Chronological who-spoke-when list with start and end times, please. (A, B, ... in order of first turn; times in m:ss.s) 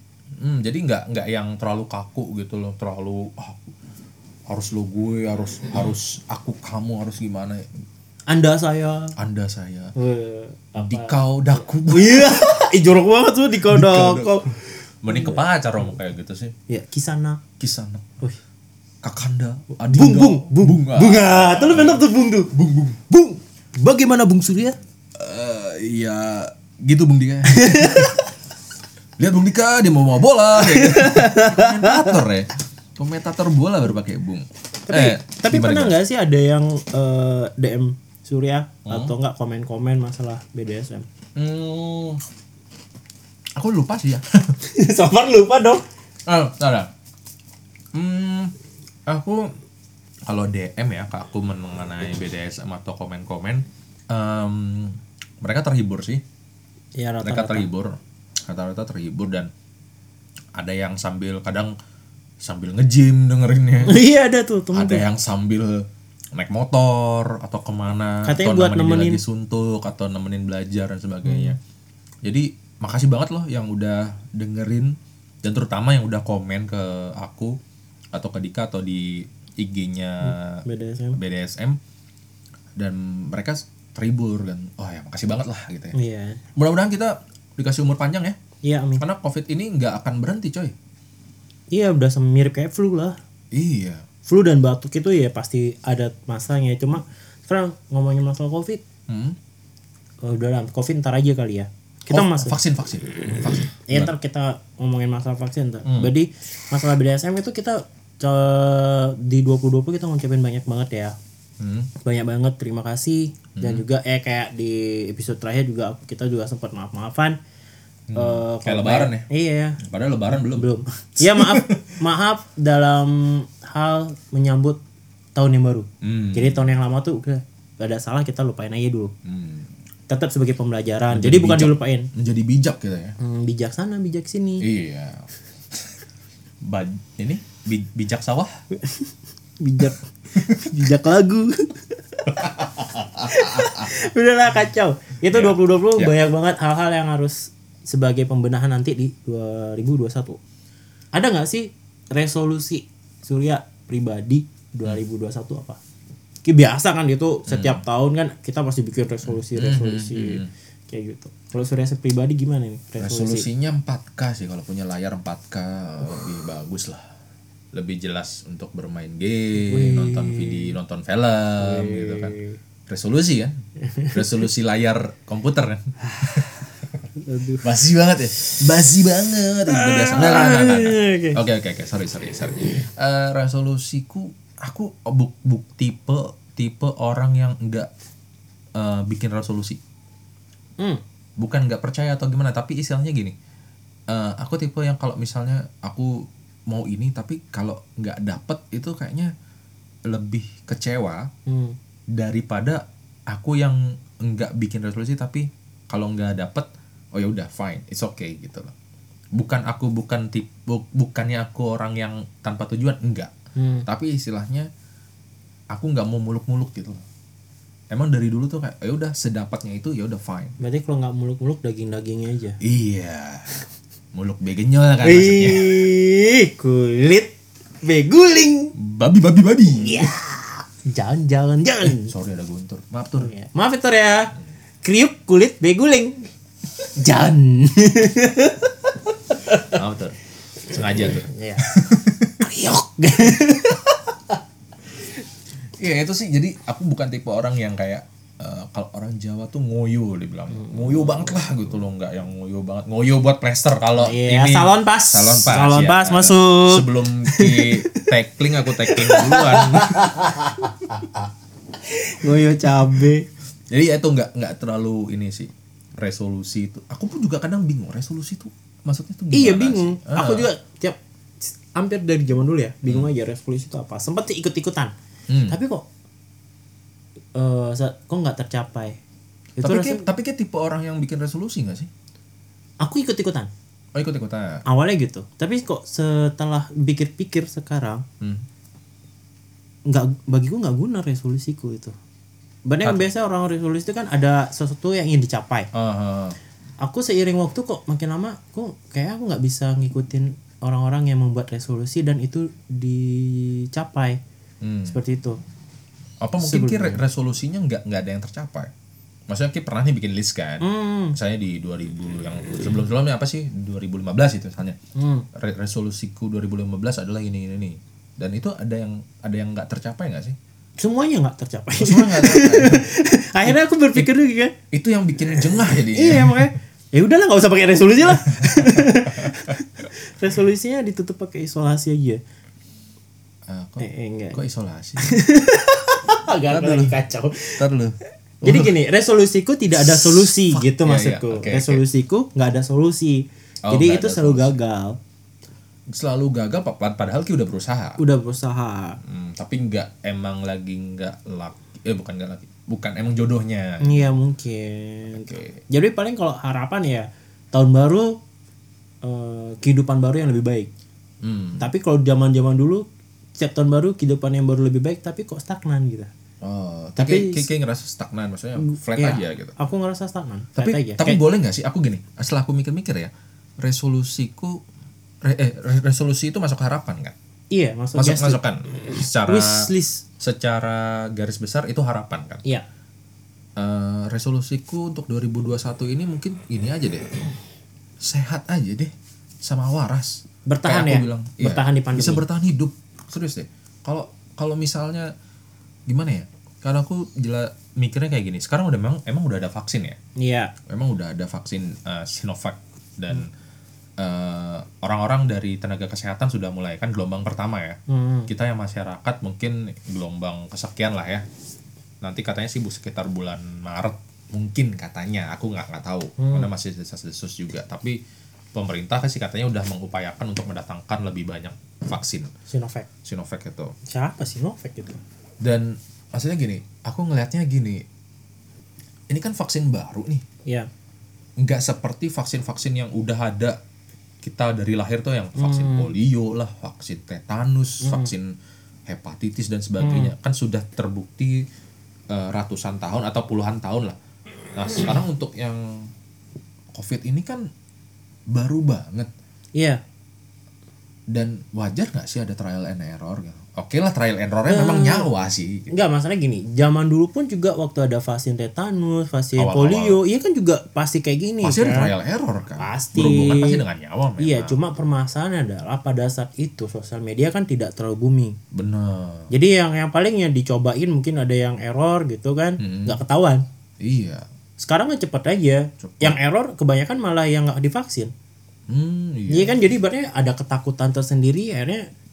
0:00.4-0:03.7 A
0:04.5-0:07.7 A
0:08.3-0:09.2 B
0:09.2-0:09.9 A
0:10.0-0:15.4 B
0:10.8-0:12.7 A
0:13.6-0:16.5 A
0:16.7-0:17.4 B
0:17.6-0:18.1 A
0:19.0-0:23.1 A
0:19.8-0:22.5 B
0:23.1-0:24.8 B
0:25.2-0:28.2 A
0:27.5-0:28.3 B
0:29.2-0:36.0 A
0:30.6-0:32.2 B
0:34.9-0:41.1 B
0:38.9-0:39.1 A
0:41.4-0:42.2 A
0:43.6-0:44.5 A
0:44.6-0:45.8 B
0:46.3-0:46.9 A
0:47.9-0:48.5 A
0:49.1-0:49.5 A
0:50.3-0:56.2 A
0:57.0-0:57.7 B
0:57.2-0:59.5 A
1:00.6-1:01.8 A
1:02.4-1:04.0 A
1:03.9-1:05.0 B
1:04.7-1:11.6 A
1:08.3-1:09.2 B
1:11.2-1:11.6 B
1:12.2-1:17.6 A
1:18.1-1:21.8 A
1:20.2-1:21.2 B
1:22.8-1:26.0 A
1:25.9-1:26.4 B
1:26.6-1:28.4 A
1:28.6-1:29.0 B
1:29.0-1:30.8 A
1:31.7-1:33.2 B
1:33.5-1:34.0 A
1:34.3-1:38.8 B
1:39.1-1:39.4 A
1:40.2-1:42.6 B
1:42.1-1:44.1 A
1:43.9-1:51.2 B
1:45.9-1:46.1 A
1:51.6-1:51.9 A
1:52.0-1:57.4 B
1:53.6-1:53.8 A
1:58.1-1:59.3 A
1:58.2-2:04.8 B
1:59.8-2:02.0 A
2:05.4-2:09.1 B
2:06.0-2:06.7 A
2:09.2-2:09.7 A
2:10.1-2:12.1 B
2:11.1-2:13.2 A
2:13.2-2:14.7 B
2:14.6-2:15.8 A
2:16.6-2:18.5 A
2:18.8-2:22.6 B
2:22.3-2:23.9 A
2:23.2-2:30.4 B
2:25.3-2:26.2 A
2:31.1-2:35.8 B
2:36.4-2:43.5 B
2:37.5-2:37.8 A
2:39.2-2:40.5 A
2:43.0-2:47.1 A
2:47.7-2:52.4 A
2:49.6-2:50.7 B
2:51.6-2:52.6 B
2:52.9-2:53.6 A
2:53.9-2:54.2 B
2:54.1-2:56.7 A
2:57.2-2:57.6 B
2:57.6-3:07.9 A
2:59.7-3:01.4 B
3:08.8-3:09.8 A
3:11.4-3:13.4 A
3:14.1-3:19.3 A
3:20.1-3:21.3 A
3:21.5-3:21.8 B
3:22.1-3:28.7 A
3:29.3-3:33.3 A
3:33.6-3:33.9 B
3:33.9-3:34.7 A
3:35.7-3:37.0 A
3:37.9-3:40.6 A
3:40.6-3:42.6 B
3:42.6-3:43.6 A
3:44.1-3:45.7 A
3:45.0-3:48.7 B
3:48.8-3:50.1 A
3:49.8-3:52.1 B
3:51.8-3:53.3 A
3:53.2-3:56.3 B
3:57.0-3:58.7 B
3:59.5-3:59.7 B
3:59.7-4:02.5 A
4:00.8-4:01.6 B
4:02.4-4:04.4 B
4:05.8-4:20.2 A
4:10.6-4:11.0 B
4:14.0-4:18.1 B
4:18.8-4:21.2 B
4:21.9-4:23.3 B
4:23.7-4:30.5 A
4:29.3-4:34.9 B
4:32.8-4:33.1 A
4:35.3-4:35.6 A
4:35.5-4:35.8 B
4:37.4-4:39.0 B
4:39.6-4:41.9 A
4:39.6-4:40.1 B
4:42.8-4:43.5 B
4:43.9-4:44.6 A
4:44.7-4:48.0 B
4:48.2-4:48.4 A
4:49.9-4:52.0 B
4:52.7-4:55.7 B
4:52.8-4:53.1 A
4:55.7-4:56.4 A
4:56.8-5:04.2 B
5:04.6-5:05.0 A
5:04.9-5:05.4 B
5:06.2-5:08.7 A
5:06.4-5:07.0 B
5:09.3-5:14.8 A
5:10.6-5:11.2 B
5:15.0-5:15.3 B
5:15.3-5:20.4 A
5:20.8-5:24.6 B
5:21.8-5:22.9 A
5:23.4-5:24.1 A
5:24.7-5:26.5 A
5:25.5-5:32.2 B
5:28.1-5:29.6 A
5:33.5-5:35.2 A
5:33.8-5:34.4 B
5:35.0-5:37.6 B
5:36.5-5:37.0 A
5:37.6-5:38.8 A
5:38.4-5:45.0 B
5:39.8-5:41.8 A
5:43.7-5:44.6 A
5:45.9-5:48.0 A
5:48.0-5:49.0 B
5:49.0-5:54.0 A
5:53.8-5:58.2 B
5:55.1-5:55.6 A
5:59.0-6:00.7 B
6:01.2-6:01.7 A
6:01.6-6:02.8 B
6:03.4-6:06.1 B
6:06.4-6:09.6 A
6:07.0-6:07.5 B
6:08.6-6:11.2 B
6:10.6-6:14.6 A
6:15.2-6:17.2 A
6:17.5-6:18.4 B
6:17.9-6:19.7 A
6:19.0-6:20.0 B
6:20.2-6:22.4 A
6:23.6-6:27.1 A
6:28.0-6:35.1 A
6:30.5-6:32.2 B
6:35.9-6:40.0 A
6:40.2-6:40.5 B
6:40.7-6:43.3 A
6:44.0-6:51.2 A
6:47.9-6:48.3 B
6:52.0-6:58.0 A
6:56.2-6:56.5 B
6:58.5-7:02.3 A
7:02.5-7:02.9 B
7:03.0-7:03.7 A
7:03.9-7:05.0 B
7:05.4-7:07.8 A
7:09.1-7:10.2 A
7:11.4-7:13.6 A
7:14.2-7:18.4 A
7:15.4-7:15.9 B
7:17.8-7:18.1 B
7:18.9-7:21.4 A
7:19.8-7:20.1 B
7:22.1-7:24.0 A
7:24.5-7:25.9 A
7:26.7-7:27.5 A
7:28.3-7:29.1 A
7:31.1-7:35.7 A
7:34.5-7:35.1 B
7:35.7-7:41.9 B
7:39.4-7:40.0 A
7:41.4-7:44.6 A
7:42.6-7:43.6 B
7:44.2-7:48.4 B
7:48.5-7:49.3 A
7:49.3-7:53.4 B
7:52.6-7:53.0 A
7:53.8-7:54.2 A
7:54.6-7:58.1 B
7:55.8-7:56.2 A
7:58.7-7:59.6 A
7:59.3-8:01.9 B